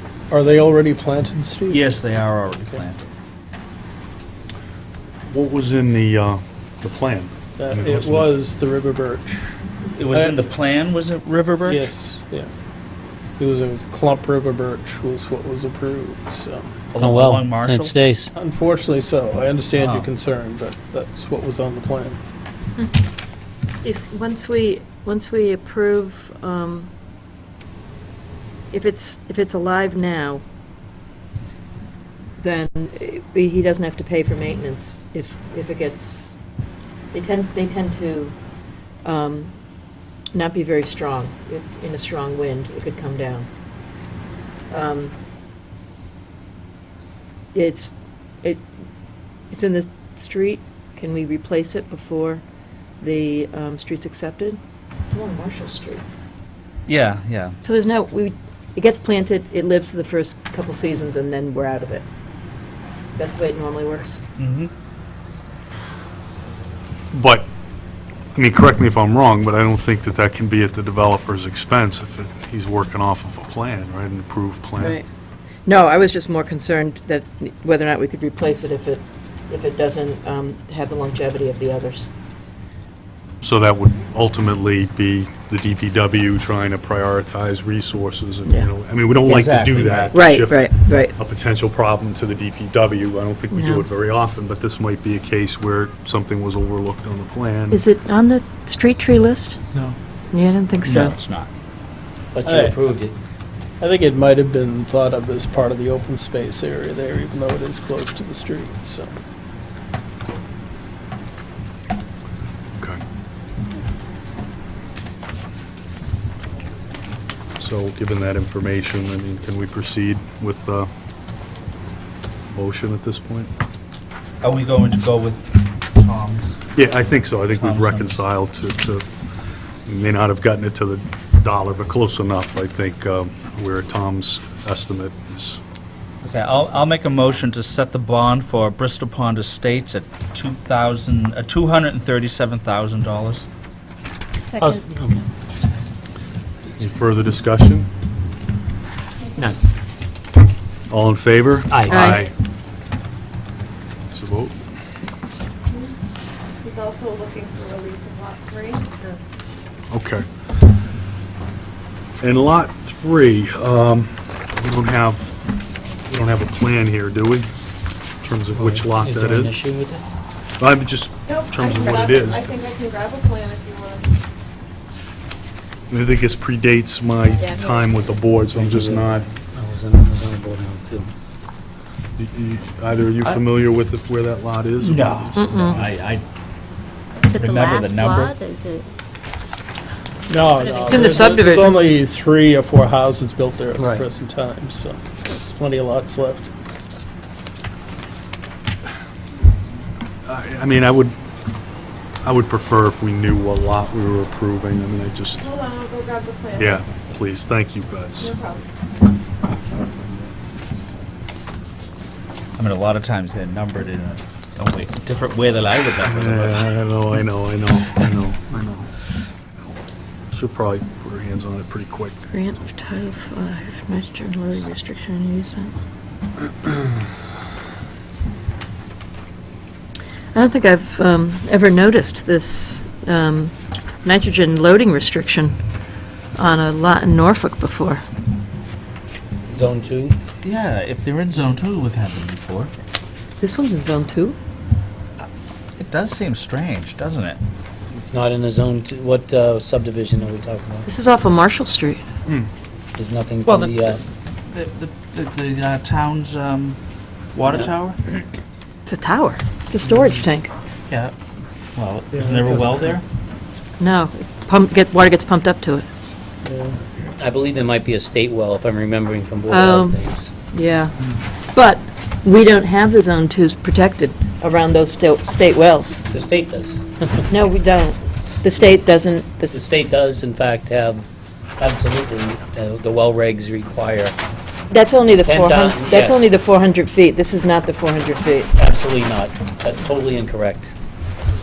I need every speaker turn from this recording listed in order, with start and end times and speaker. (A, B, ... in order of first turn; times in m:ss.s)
0:00.3-0:01.9 A
0:01.7-0:03.1 B
0:05.3-0:08.3 C
0:07.6-0:09.5 A
0:10.0-0:11.9 B
0:10.1-0:10.4 A
0:11.6-0:12.5 A
0:13.4-0:16.7 A
0:16.9-0:18.0 B
0:17.0-0:18.3 D
0:18.4-0:22.2 A
0:19.8-0:20.1 B
0:23.8-0:26.9 E
0:28.7-0:30.4 E
0:32.4-0:36.4 E
0:37.1-0:38.4 E
0:39.0-0:39.6 E
0:40.3-0:43.5 E
0:44.7-0:45.1 E
0:47.5-0:47.9 E
0:49.5-0:52.4 E
0:53.0-0:56.0 E
0:56.9-0:57.6 B
0:57.6-1:02.0 E
1:03.2-1:04.2 E
1:04.4-1:04.7 B
1:07.1-1:07.5 C
1:08.4-1:15.0 C
1:14.8-1:15.1 E
1:15.7-1:22.1 E
1:23.4-1:37.8 C
1:29.2-1:30.2 B
1:30.1-1:31.1 E
1:33.5-1:33.9 E
1:37.7-1:39.6 E
1:40.3-1:41.2 E
1:40.8-1:41.5 B
1:42.3-1:43.2 D
1:42.4-1:42.8 A
1:43.8-1:49.2 A
1:52.8-1:53.0 C
1:57.6-2:00.9 C
2:02.5-2:03.5 C
2:04.4-2:06.6 B
2:06.8-2:09.1 C
2:07.6-2:08.2 B
2:09.9-2:15.6 C
2:16.2-2:23.5 B
2:24.5-2:24.8 F
2:24.6-2:25.2 D
2:26.8-2:27.9 C
2:30.9-2:32.3 C
2:31.7-2:32.2 D
2:31.9-2:32.2 E
2:34.1-2:34.6 C
2:36.6-2:39.2 G
2:39.9-2:40.3 C
2:42.2-2:45.3 C
2:46.1-2:47.5 C
2:48.2-2:49.6 C
2:48.5-2:50.0 D
2:50.6-2:52.6 C
2:51.3-2:54.3 G
2:55.9-2:59.3 C
2:57.4-2:58.2 F
2:58.5-3:01.1 D
3:02.2-3:05.4 C
3:04.8-3:06.2 B
3:05.4-3:05.8 E
3:07.2-3:08.9 F
3:07.3-3:08.4 B
3:10.3-3:16.5 A
3:10.5-3:11.5 F
3:10.8-3:11.8 E
3:13.8-3:14.0 D
3:20.3-3:21.2 C
3:22.2-3:25.5 C
3:25.4-3:26.9 G
3:26.6-3:28.4 C
3:28.2-3:28.7 G
3:32.6-3:37.2 B
3:36.0-3:38.9 C
3:40.3-3:42.2 C
3:42.3-3:45.7 E
3:50.3-3:55.6 E
3:56.4-3:58.0 E
3:59.5-4:00.2 D
4:00.4-4:02.7 B
4:03.4-4:04.4 E
4:05.8-4:07.4 B
4:07.9-4:10.9 D
4:10.9-4:12.0 E
4:13.0-4:14.0 D
4:13.4-4:16.8 B
4:17.3-4:18.0 B
4:17.4-4:17.7 D
4:18.9-4:20.5 E
4:20.9-4:21.2 B
4:21.8-4:23.0 B
4:23.8-4:25.9 E
4:26.5-4:30.3 D
4:29.5-4:36.0 E
4:36.1-4:37.3 D
4:37.3-4:39.6 E
4:39.5-4:41.1 D
4:41.6-4:44.2 D
4:44.7-4:48.5 E
4:45.1-4:46.3 D
4:48.6-4:50.7 D